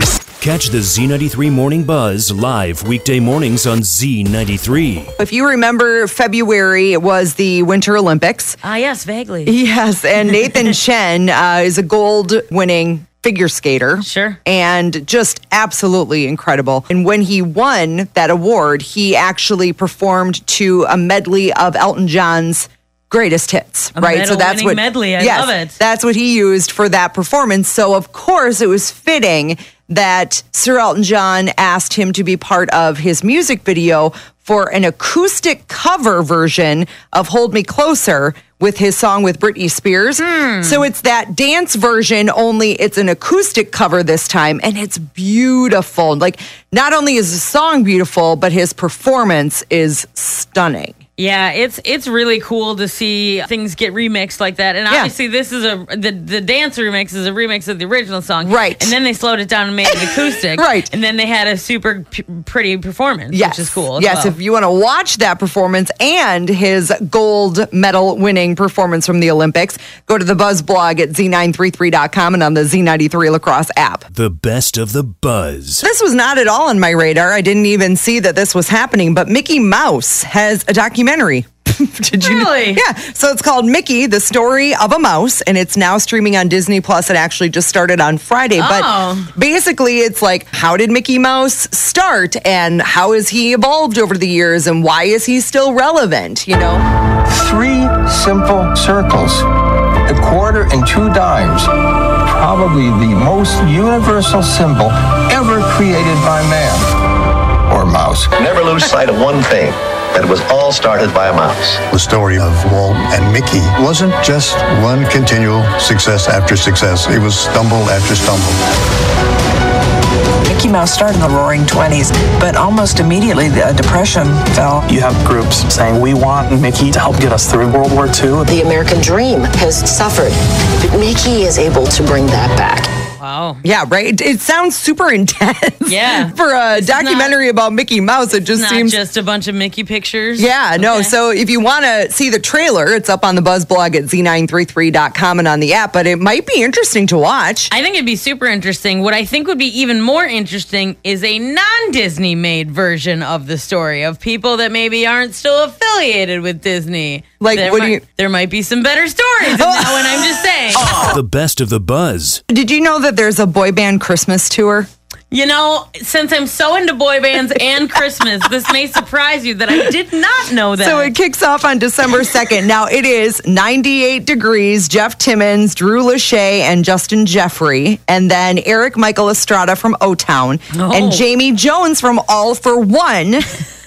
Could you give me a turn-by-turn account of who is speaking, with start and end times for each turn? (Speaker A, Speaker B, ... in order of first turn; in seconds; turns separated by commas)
Speaker A: 0.4-5.1, Speaker B: 5.2-8.6, Speaker C: 8.6-9.6, Speaker B: 9.4-50.9, Speaker C: 14.0-14.4, Speaker C: 23.9-25.8, Speaker C: 40.2-40.9, Speaker C: 51.2-64.4, Speaker B: 58.4-58.9, Speaker B: 60.2-60.9, Speaker B: 63.3-74.0, Speaker A: 74.1-75.8, Speaker B: 75.8-96.8, Speaker C: 82.2-82.8, Speaker C: 88.6-89.3, Speaker D: 97.3-99.4, Speaker D: 100.1-101.7, Speaker D: 102.2-106.9, Speaker D: 107.7-108.3, Speaker E: 108.4-111.8, Speaker F: 111.9-118.6, Speaker G: 120.5-124.7, Speaker H: 120.7-125.2, Speaker I: 124.8-128.3, Speaker G: 128.4-132.9, Speaker C: 133.2-133.6, Speaker B: 133.6-138.9, Speaker C: 135.8-137.3, Speaker C: 138.5-141.1, Speaker B: 140.4-147.7, Speaker C: 147.7-161.1, Speaker B: 157.4-158.0, Speaker B: 159.4-161.2, Speaker A: 161.0-162.4, Speaker B: 162.5-164.9, Speaker C: 165.3-171.1, Speaker B: 170.8-183.5, Speaker C: 180.7-181.2